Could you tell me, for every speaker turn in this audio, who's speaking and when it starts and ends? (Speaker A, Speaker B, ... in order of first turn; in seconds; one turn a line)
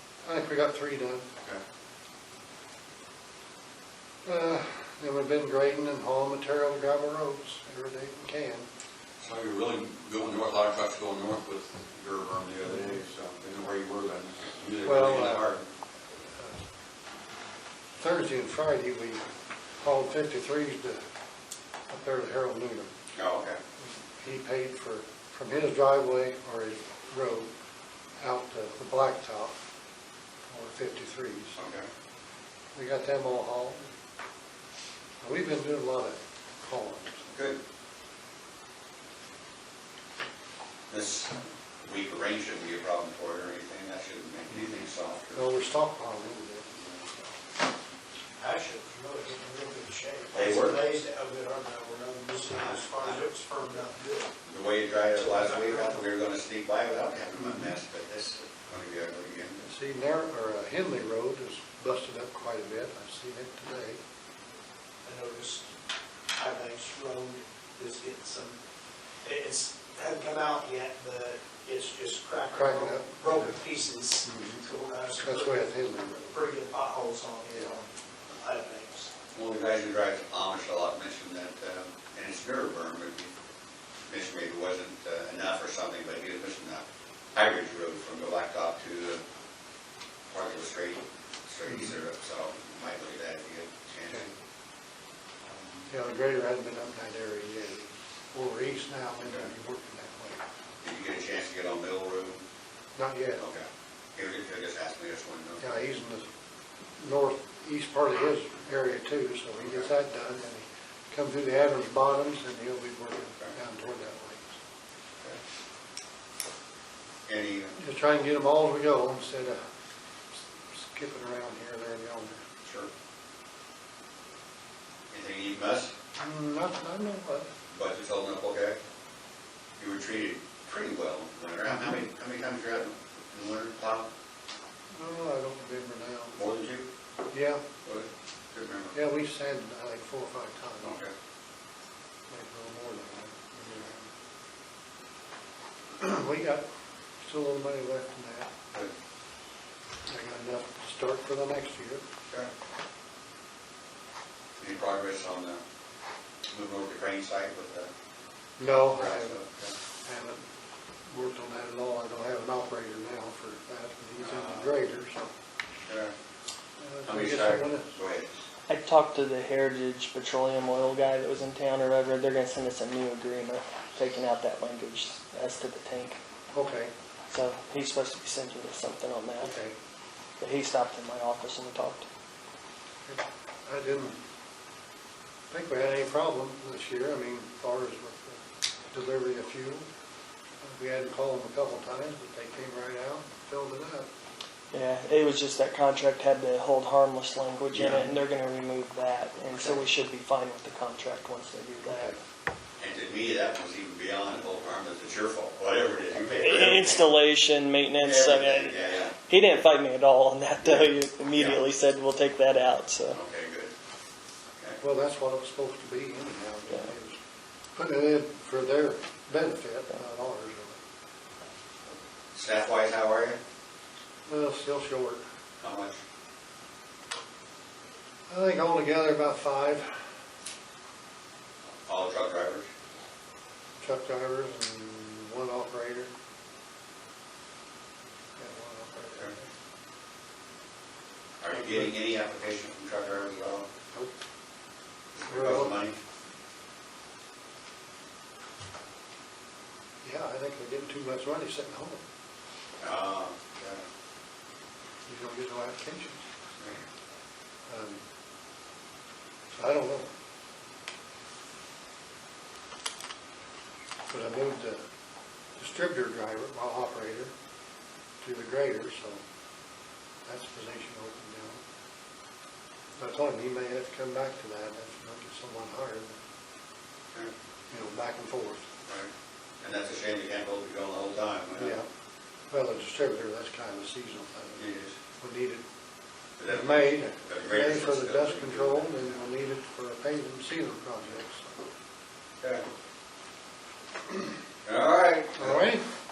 Speaker A: 0.2-1.3
Speaker A: 4.2-8.7
Speaker B: 9.2-15.7
Speaker A: 14.8-15.5
Speaker A: 16.3-16.6
Speaker A: 18.0-19.2
Speaker A: 19.8-21.0
Speaker A: 21.9-22.9
Speaker B: 23.1-23.6
Speaker A: 24.2-27.5
Speaker A: 28.2-29.5
Speaker A: 30.5-31.6
Speaker B: 31.6-31.9
Speaker A: 32.7-33.9
Speaker A: 35.2-37.3
Speaker B: 37.3-37.6
Speaker B: 40.9-45.5
Speaker A: 45.3-46.9
Speaker C: 48.4-54.3
Speaker B: 50.3-50.8
Speaker B: 52.5-53.2
Speaker B: 54.4-59.6
Speaker C: 55.2-56.0
Speaker A: 59.6-64.0
Speaker C: 65.0-65.7
Speaker C: 66.3-68.6
Speaker C: 69.2-75.7
Speaker A: 72.5-73.6
Speaker A: 74.2-74.6
Speaker A: 75.2-76.4
Speaker C: 76.3-79.1
Speaker B: 79.3-83.3
Speaker B: 84.1-89.2
Speaker B: 90.3-94.2
Speaker A: 94.1-94.3
Speaker A: 95.9-100.4
Speaker B: 100.8-102.4
Speaker A: 103.0-103.4
Speaker B: 103.4-105.7
Speaker A: 105.6-106.3
Speaker A: 107.0-114.6
Speaker B: 109.6-109.9
Speaker B: 117.3-117.8
Speaker A: 117.8-119.6
Speaker A: 120.7-122.4
Speaker B: 122.6-122.9
Speaker B: 125.1-125.9
Speaker A: 126.2-127.5
Speaker B: 127.7-128.8
Speaker B: 129.8-134.1
Speaker A: 134.9-136.3
Speaker B: 136.3-136.9
Speaker A: 137.3-137.6
Speaker B: 137.8-138.9
Speaker A: 138.9-140.9
Speaker B: 140.8-141.1
Speaker A: 142.3-144.0
Speaker A: 146.0-146.7
Speaker A: 147.2-148.5
Speaker A: 150.1-152.0
Speaker B: 154.6-155.6
Speaker B: 156.5-157.9
Speaker A: 158.6-159.3
Speaker B: 158.9-159.7
Speaker A: 160.0-160.4
Speaker A: 161.1-165.3
Speaker B: 164.2-164.7
Speaker B: 165.9-166.1
Speaker A: 166.8-167.9
Speaker B: 167.1-168.3
Speaker D: 168.7-176.2
Speaker A: 176.5-176.9
Speaker D: 177.3-179.5
Speaker A: 179.4-179.7
Speaker D: 180.4-182.1
Speaker A: 183.1-184.2
Speaker A: 185.5-189.8
Speaker A: 190.6-194.1
Speaker D: 194.7-202.1
Speaker B: 197.7-198.1
Speaker B: 202.8-207.1
Speaker D: 206.3-213.2
Speaker B: 208.0-209.1
Speaker B: 210.6-211.6
Speaker B: 213.1-213.7
Speaker A: 214.8-217.2
Speaker A: 217.7-220.8
Speaker B: 222.3-223.4
Speaker A: 224.3-225.2
Speaker B: 225.6-226.0
Speaker A: 228.3-229.9
Speaker B: 231.8-232.7
Speaker A: 233.8-236.1
Speaker A: 238.3-239.5
Speaker B: 241.4-243.7
Speaker B: 245.1-246.0
Speaker A: 245.3-245.8
Speaker A: 250.0-252.0
Speaker B: 252.8-253.8
Speaker A: 255.1-256.2
Speaker A: 257.7-258.0
Speaker A: 259.5-260.1
Speaker A: 264.1-264.8
Speaker A: 265.6-267.3
Speaker A: 268.2-269.2
Speaker A: 270.2-271.6
Speaker A: 273.0-276.2
Speaker A: 277.7-278.6
Speaker B: 279.6-281.8
Speaker A: 281.5-281.9
Speaker A: 282.5-284.6
Speaker B: 284.6-284.9
Speaker A: 285.2-285.6
Speaker B: 286.4-289.0
Speaker A: 286.5-291.6
Speaker B: 294.6-295.6
Speaker A: 295.4-295.8